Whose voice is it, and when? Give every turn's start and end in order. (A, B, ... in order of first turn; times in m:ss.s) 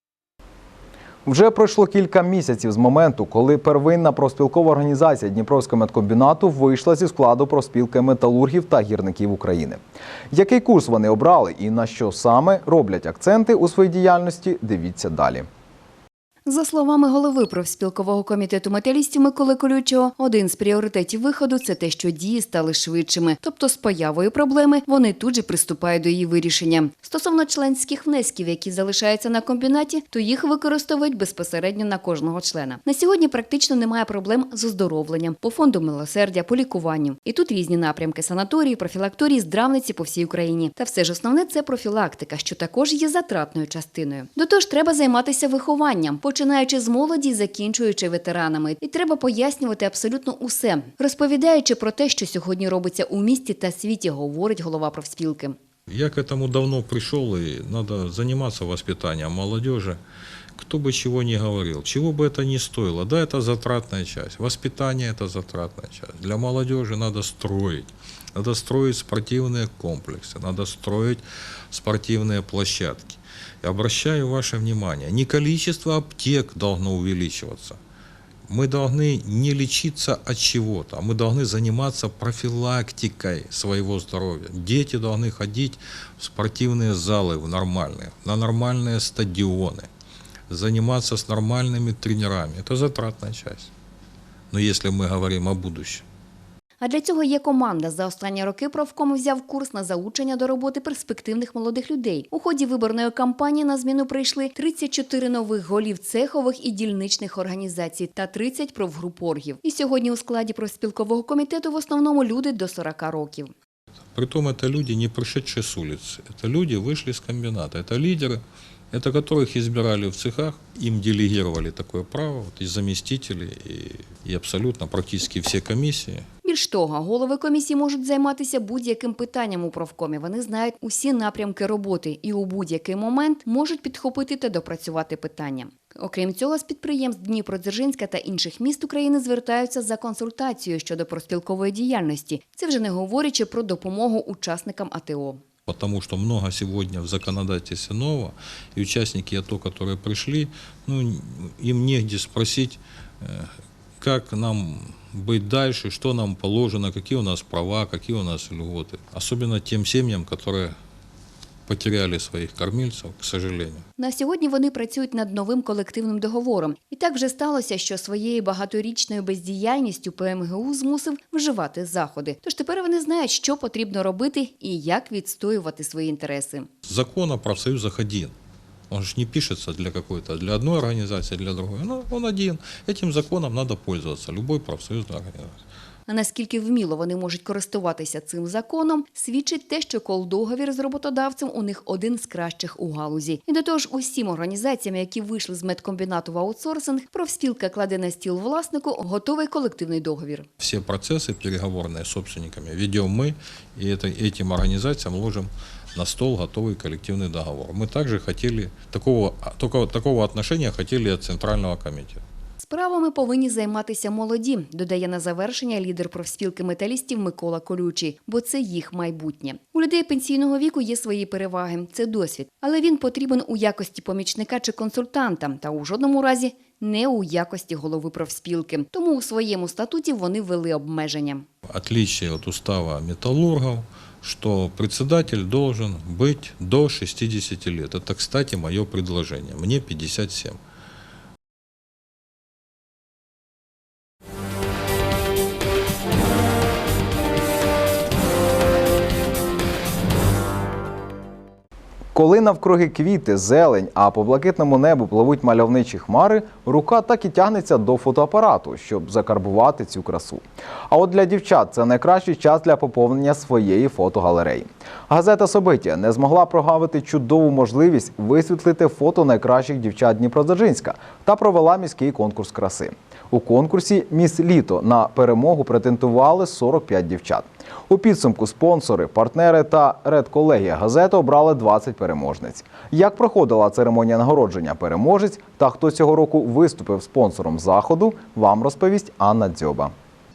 0:01.2-0:09.8 A
0:10.3-0:15.5 A
0:16.4-0:55.6 B
0:55.9-1:00.0 C
1:00.5-1:17.8 C
1:18.5-1:29.9 C
1:30.5-1:33.7 C
1:34.5-1:36.0 C
1:36.8-1:53.5 B
1:54.1-2:06.2 C
2:06.4-2:25.4 B
2:25.7-2:40.8 C
2:41.7-2:43.8 C
2:44.0-2:56.7 B
2:56.9-2:58.3 C
2:58.9-3:05.6 C
3:06.1-3:20.5 B
3:20.6-3:32.2 C
3:32.6-3:51.4 B
3:51.7-4:00.6 C
4:12.1-4:49.9 A